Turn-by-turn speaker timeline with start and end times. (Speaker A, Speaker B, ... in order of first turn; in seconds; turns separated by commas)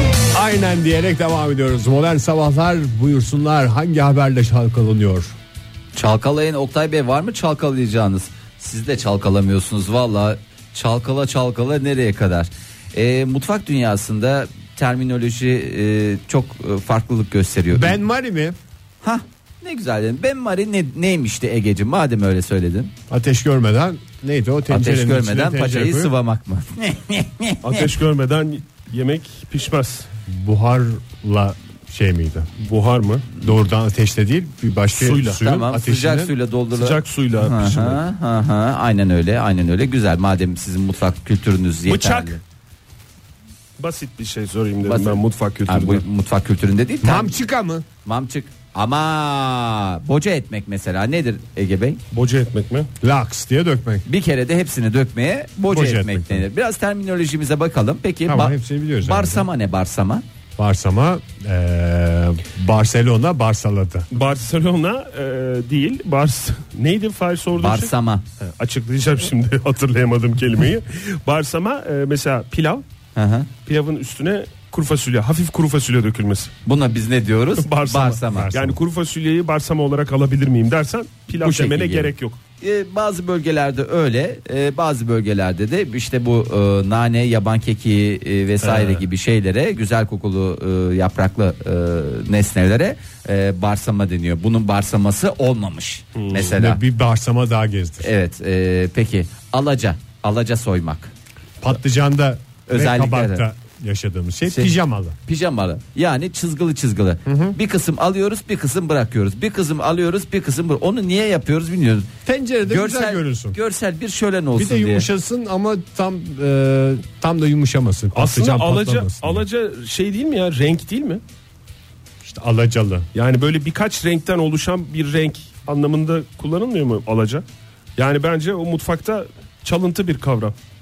Speaker A: 0.3-5.3, Speaker B: 5.9-18.0, Speaker A: 17.7-18.6, Speaker B: 19.0-22.9, Speaker A: 23.1-26.1, Speaker B: 24.7-27.9, Speaker C: 27.6-30.1, Speaker A: 30.3-32.5, Speaker C: 32.6-33.3, Speaker A: 33.4-36.3, Speaker C: 34.9-35.4, Speaker B: 35.4-42.4, Speaker C: 36.7-38.0, Speaker C: 41.9-42.4, Speaker C: 43.8-46.0, Speaker B: 44.8-47.4, Speaker A: 47.0-47.9, Speaker B: 48.0-52.0, Speaker C: 52.1-52.9, Speaker A: 53.0-54.0, Speaker B: 54.0-60.2, Speaker A: 55.7-56.5, Speaker A: 58.2-59.5, Speaker A: 60.6-64.0, Speaker C: 64.1-72.8, Speaker B: 67.5-68.2, Speaker B: 73.1-73.5, Speaker C: 73.6-76.5, Speaker B: 76.6-78.5, Speaker C: 77.6-82.4, Speaker A: 78.3-78.8, Speaker B: 81.4-96.8, Speaker C: 88.6-89.0, Speaker C: 96.1-96.5, Speaker A: 96.4-98.1, Speaker B: 98.0-101.1, Speaker A: 101.6-105.2, Speaker B: 102.7-103.5, Speaker B: 104.5-112.1, Speaker A: 107.2-107.5, Speaker A: 112.2-113.6, Speaker B: 112.7-115.1, Speaker A: 114.5-119.4, Speaker C: 118.1-121.2, Speaker A: 122.2-123.1, Speaker C: 123.1-127.4, Speaker C: 128.0-130.5